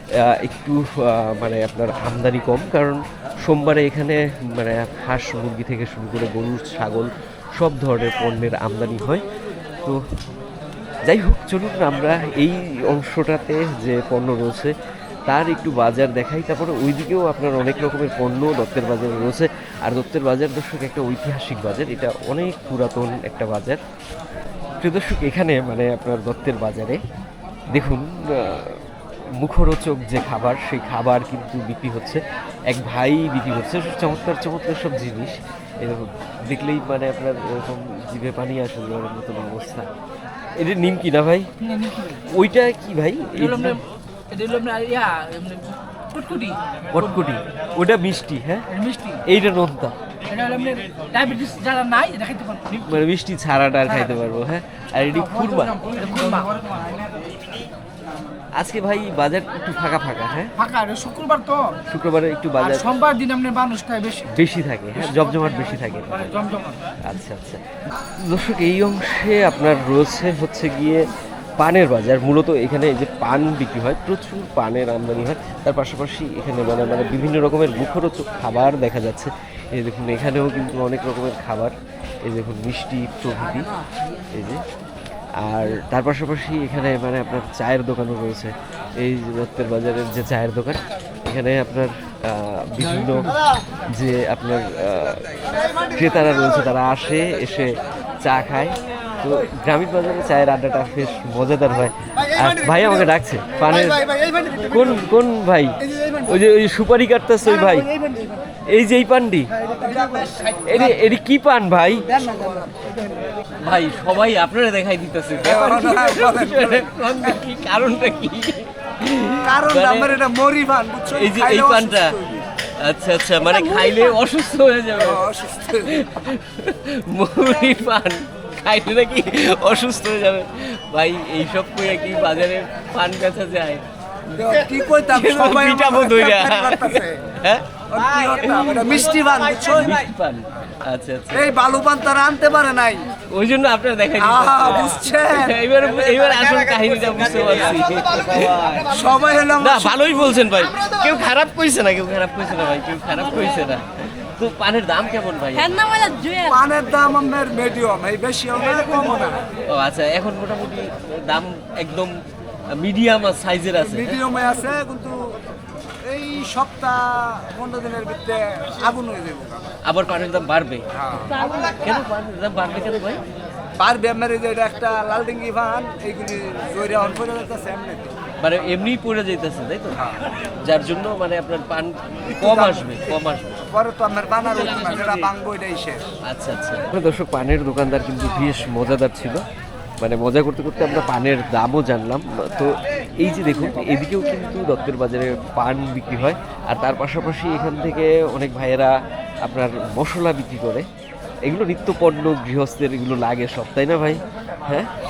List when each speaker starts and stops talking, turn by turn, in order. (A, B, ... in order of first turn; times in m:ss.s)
0:00.2-0:09.2 A
0:11.1-0:14.7 A
0:15.3-0:23.8 A
0:24.8-0:27.0 A
0:27.7-0:28.8 A
0:29.4-0:39.9 A
0:40.6-0:41.5 A
0:41.7-0:42.1 B
0:42.1-0:43.8 A
0:44.3-0:46.6 B
0:46.9-0:48.7 A
0:48.7-0:49.2 B
0:49.2-0:50.0 A
0:50.3-0:52.9 B
0:52.8-0:56.9 A
0:55.8-0:56.5 B
0:58.6-1:00.5 A
1:00.6-1:01.7 B
1:01.9-1:02.9 A
1:02.8-1:04.2 B
1:04.2-1:06.5 A
1:06.4-1:06.8 B
1:07.1-1:07.6 A
1:08.2-1:11.0 A
1:11.6-1:21.7 A
1:22.2-1:23.7 A
1:24.3-1:24.6 A
1:25.4-1:33.3 A
1:33.9-1:35.2 A
1:35.9-1:47.9 A
1:48.7-1:49.5 A
1:50.6-1:52.1 A
1:53.6-2:00.2 A
1:55.4-1:57.4 C
1:59.4-2:02.4 C
2:01.1-2:02.1 A
2:02.8-2:05.3 A
2:05.0-2:06.0 C
2:05.9-2:17.8 A
2:14.3-2:17.2 C
2:17.9-2:20.0 C
2:18.4-2:19.0 A
2:19.6-2:21.5 A
2:21.3-2:23.1 C
2:23.3-2:28.9 A
2:24.2-2:26.6 C
2:28.8-2:30.0 C
2:29.6-2:36.0 A
2:36.4-2:39.4 C
2:39.7-2:42.2 A
2:42.8-2:44.2 A
2:43.8-2:45.3 C
2:46.1-2:49.7 C
2:49.8-2:50.8 A
2:51.0-2:51.3 C
2:51.4-2:53.2 A
2:53.8-2:58.1 C
2:58.4-3:03.6 A
3:02.4-3:03.1 C
3:03.7-3:06.0 C
3:06.2-3:09.4 A
3:10.0-3:20.9 A
3:21.4-3:24.9 A